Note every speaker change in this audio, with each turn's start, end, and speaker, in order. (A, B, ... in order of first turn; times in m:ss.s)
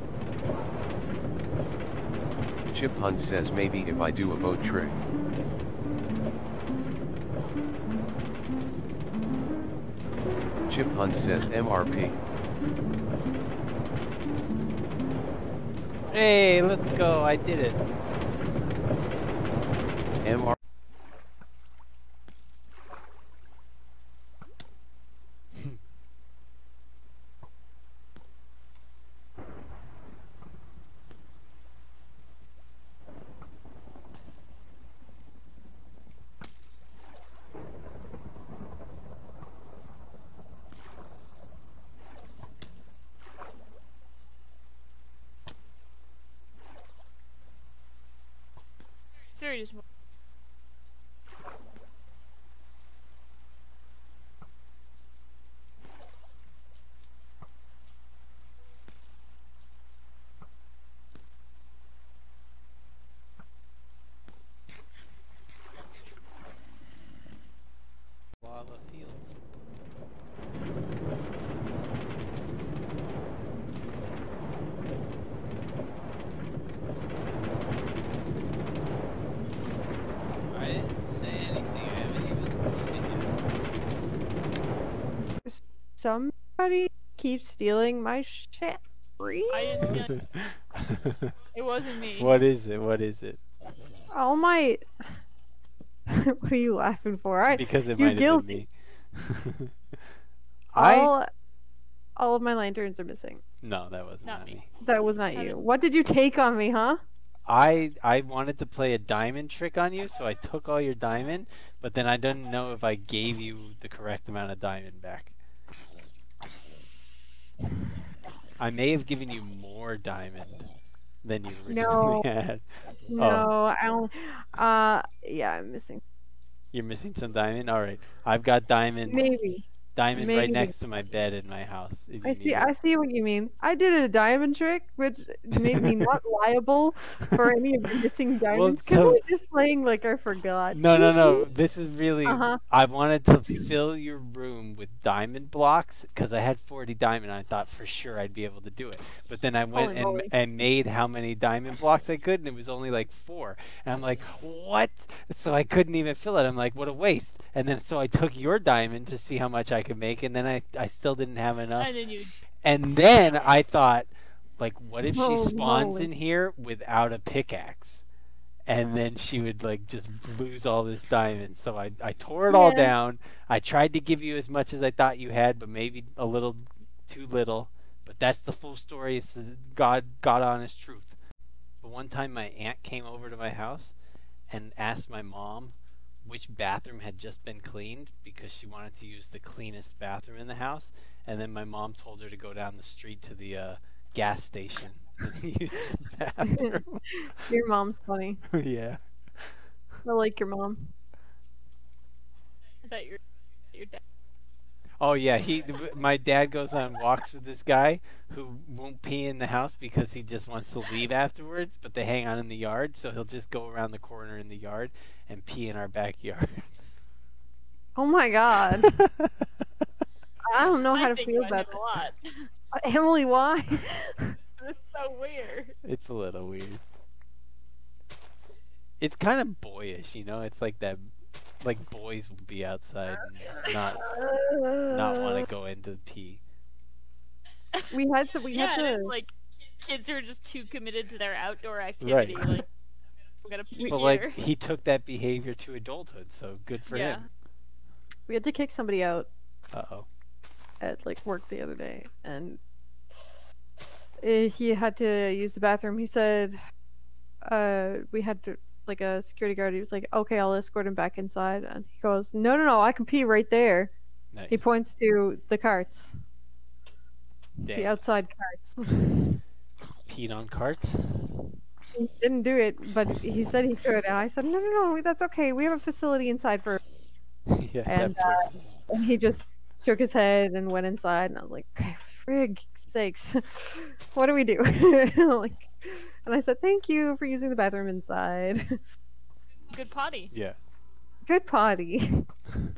0:02.7-0:05.0 A
0:10.7-0:12.2 A
0:16.1-0:17.8 B
0:20.2-0:20.6 A
0:49.3-0:49.8 C
1:08.4-1:09.4 B
1:20.5-1:23.4 B
1:25.4-1:29.9 D
1:29.5-1:30.2 C
1:30.1-1:31.3 B
1:31.5-1:32.4 C
1:32.2-1:33.4 B
1:34.1-1:34.8 D
1:36.1-1:38.6 D
1:37.5-1:39.7 B
1:40.7-1:41.1 B
1:40.7-1:41.3 D
1:42.2-1:43.4 D
1:43.6-1:44.7 B
1:44.2-1:44.6 C
1:44.8-1:47.0 D
1:45.3-1:45.6 C
1:47.5-1:55.3 B
1:58.6-2:00.7 B
2:01.2-2:02.6 B
2:01.6-2:02.3 D
2:03.1-2:06.0 D
2:03.2-2:03.5 B
2:06.7-2:09.3 B
2:09.1-2:10.7 D
2:09.9-2:12.7 B
2:12.2-2:21.4 D
2:15.5-2:16.1 B
2:18.5-2:19.2 B
2:20.7-2:41.9 B
2:22.2-2:22.6 D
2:29.7-2:30.3 D
2:41.8-2:42.3 C
2:42.6-2:48.0 B
2:45.0-2:46.1 D
2:48.7-3:01.1 B
2:52.5-2:52.9 D
3:01.8-3:03.9 B
3:04.5-3:17.1 B
3:16.5-3:18.4 D
3:18.5-3:19.5 B
3:20.0-3:20.9 D
3:22.8-3:23.2 C
3:23.7-3:24.0 C
3:25.0-3:36.7 B
3:37.9-3:38.9 D
3:38.8-3:39.3 B
3:40.5-3:41.8 D
3:40.9-3:42.5 C
3:42.7-3:44.4 D
3:44.6-3:45.7 C
3:45.8-3:46.8 B
3:49.0-3:51.1 B
3:51.6-3:54.0 B
3:54.0-3:55.4 D
3:54.9-3:56.4 B
3:57.9-3:59.1 D
3:58.5-4:02.7 C
4:02.0-4:02.5 B
4:03.4-4:04.4 C
4:03.8-4:07.2 B
4:06.9-4:07.2 C
4:08.3-4:09.3 D
4:09.7-4:10.1 B
4:10.8-4:12.6 D
4:14.2-4:16.6 D
4:17.4-4:23.9 D
4:24.3-4:24.6 B
4:24.5-4:26.1 D
4:27.6-4:28.0 B
4:27.7-4:29.4 D
4:30.1-4:31.4 B
4:31.9-4:36.8 D
4:37.5-4:38.8 B
4:37.8-4:48.8 D
4:49.7-4:50.3 C
4:50.3-4:50.6 B
4:51.2-4:52.3 D